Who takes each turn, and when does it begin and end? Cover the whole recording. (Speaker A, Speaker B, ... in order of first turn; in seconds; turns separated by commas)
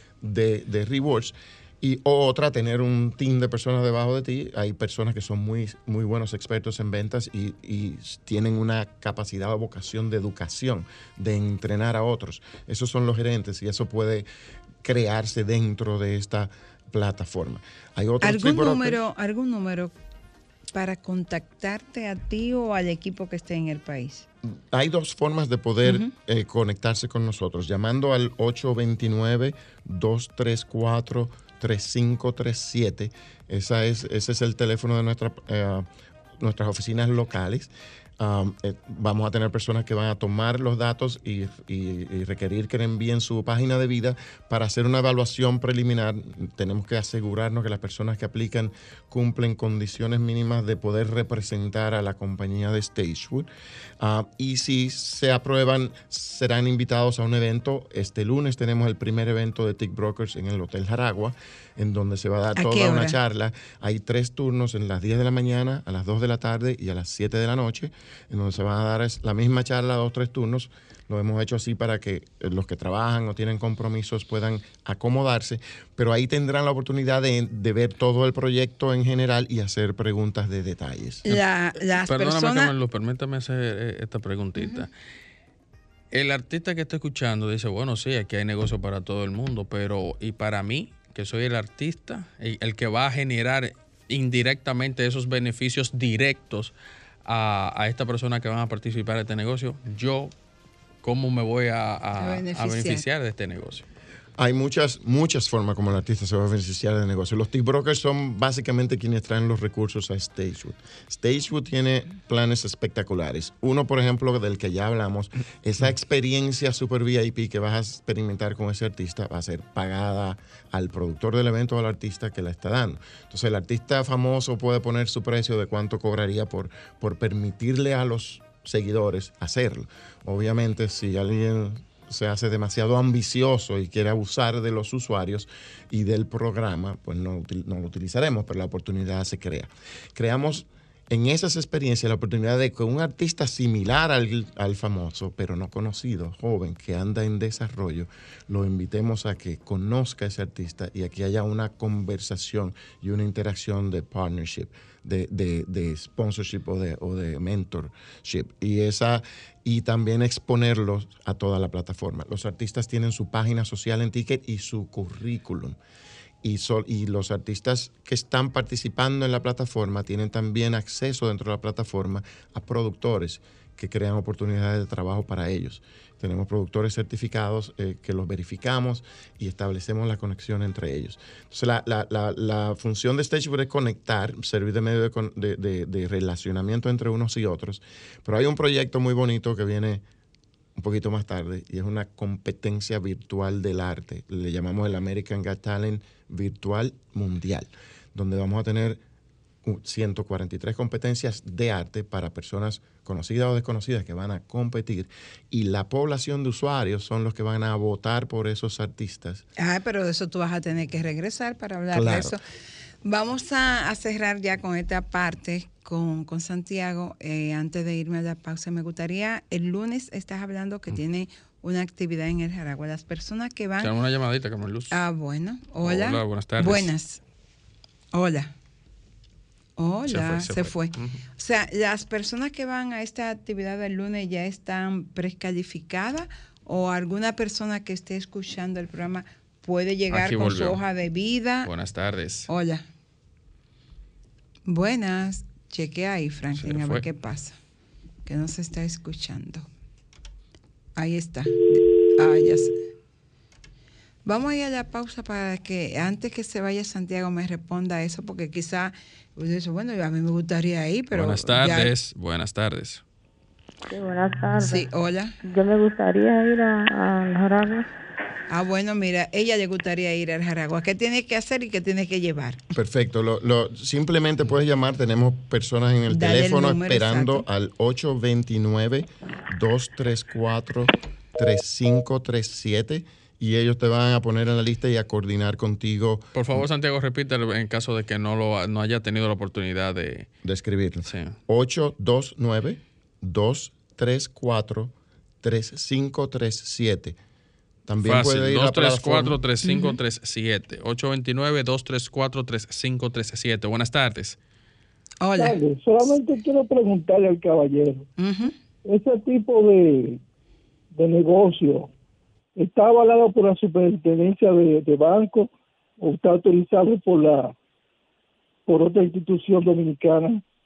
Speaker A: 0.2-14.2, Speaker A: 14.8-19.0, Speaker B: 18.2-19.9, Speaker B: 20.7-24.3, Speaker A: 24.7-53.5, Speaker B: 25.8-26.1, Speaker A: 54.0-81.4, Speaker B: 62.5-63.2, Speaker B: 81.2-82.7, Speaker C: 82.0-84.9, Speaker B: 84.6-84.8, Speaker C: 86.1-96.7, Speaker C: 97.2-100.3, Speaker C: 101.0-103.8, Speaker B: 102.2-103.0, Speaker A: 104.4-165.8, Speaker A: 166.4-190.0, Speaker A: 190.8-199.0, Speaker A: 199.6-209.4, Speaker B: 209.6-212.4, Speaker A: 211.9-212.3, Speaker B: 213.0-223.9, Speaker C: 223.8-225.0, Speaker B: 224.9-227.2, Speaker C: 225.8-226.9, Speaker B: 228.1-228.5, Speaker B: 229.8-241.7, Speaker C: 230.1-231.2, Speaker C: 240.1-240.8, Speaker C: 241.6-242.5, Speaker B: 242.5-242.8, Speaker B: 244.7-247.6, Speaker C: 246.6-247.0, Speaker B: 248.2-249.7, Speaker B: 251.0-252.8, Speaker B: 254.2-261.9, Speaker C: 261.1-263.0, Speaker D: 263.9-264.9, Speaker B: 264.5-265.4, Speaker D: 265.4-267.9, Speaker B: 268.5-272.6, Speaker A: 272.7-286.3, Speaker B: 276.1-277.4, Speaker C: 286.3-290.3, Speaker A: 290.4-297.2, Speaker C: 291.0-291.4, Speaker A: 297.9-299.4, Speaker C: 298.0-304.4, Speaker B: 299.6-299.9, Speaker B: 305.2-305.6, Speaker E: 305.4-308.1, Speaker B: 308.2-308.5, Speaker E: 308.9-310.2, Speaker E: 310.9-311.9, Speaker E: 312.6-317.5, Speaker E: 318.7-320.4